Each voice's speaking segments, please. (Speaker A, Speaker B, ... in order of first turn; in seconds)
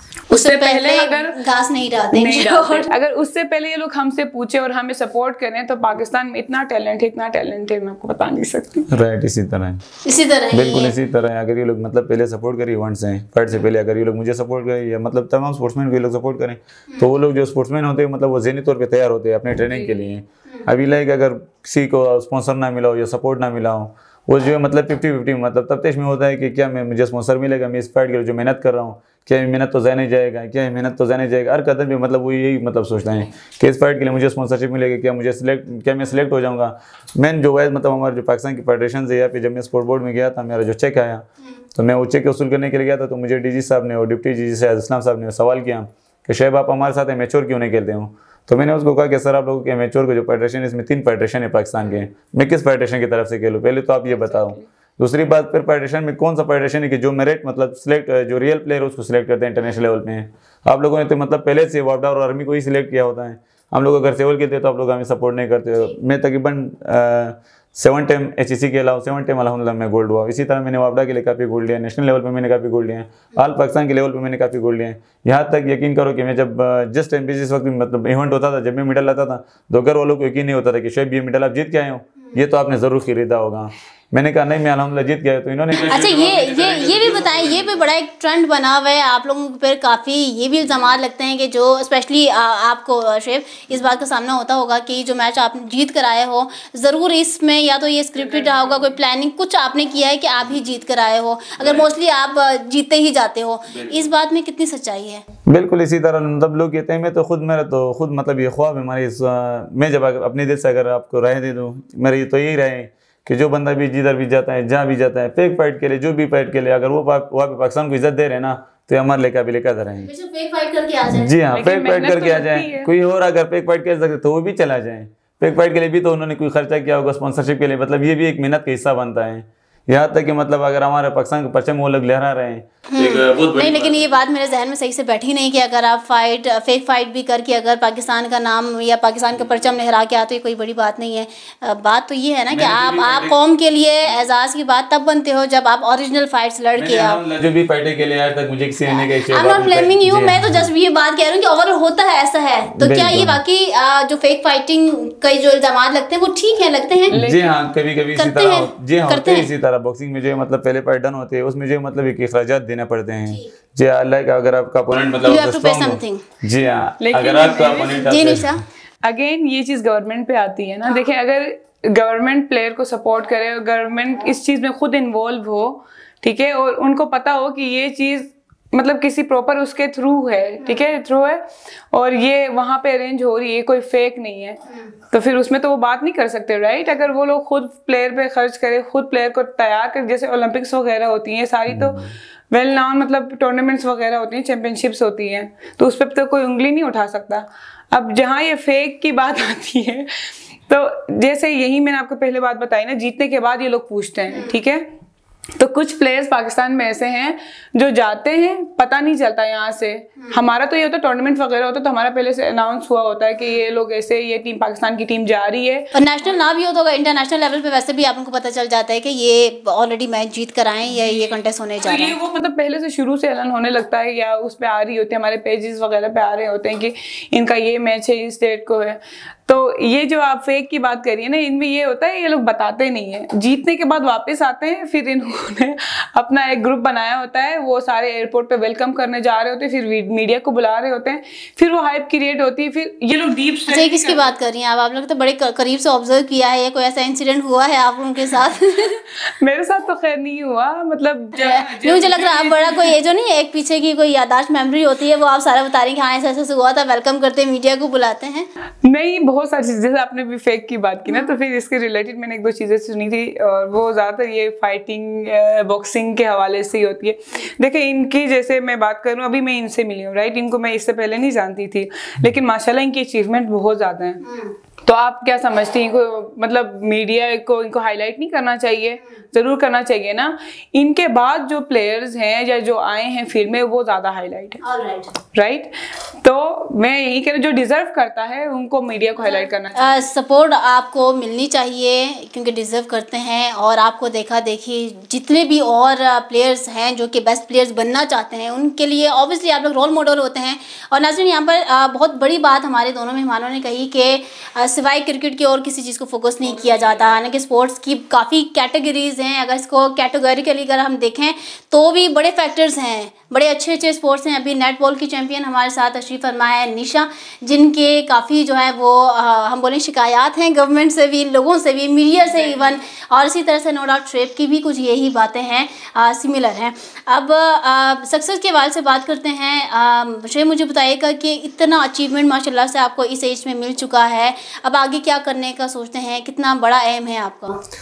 Speaker A: 0.3-1.5, 2.1-8.9, 19.7-20.1, 54.2-54.6, 98.3-98.8, 121.5-122.9, 157.1-157.5, 167.0-168.1, 169.0-204.9, 205.6-215.9, 220.9-244.3, 249.3-252.9, 258.8-274.2, 274.9-284.6, 285.3-290.0
Speaker B: 0.3-2.9, 10.0-10.9, 85.7-105.2, 120.0-121.3, 132.9-147.2, 148.9-157.2, 158.2-159.5, 165.3-166.2, 168.1-168.6, 215.9-222.2, 243.7-249.0, 251.3-258.5, 284.6-285.1, 289.7-337.6
Speaker C: 8.9-9.8, 10.5-87.9, 101.6-101.9, 103.7-104.0, 105.5-120.1, 121.1-134.2, 142.5-143.4, 146.8-150.7, 152.8-153.4, 157.1-168.6, 191.7-192.1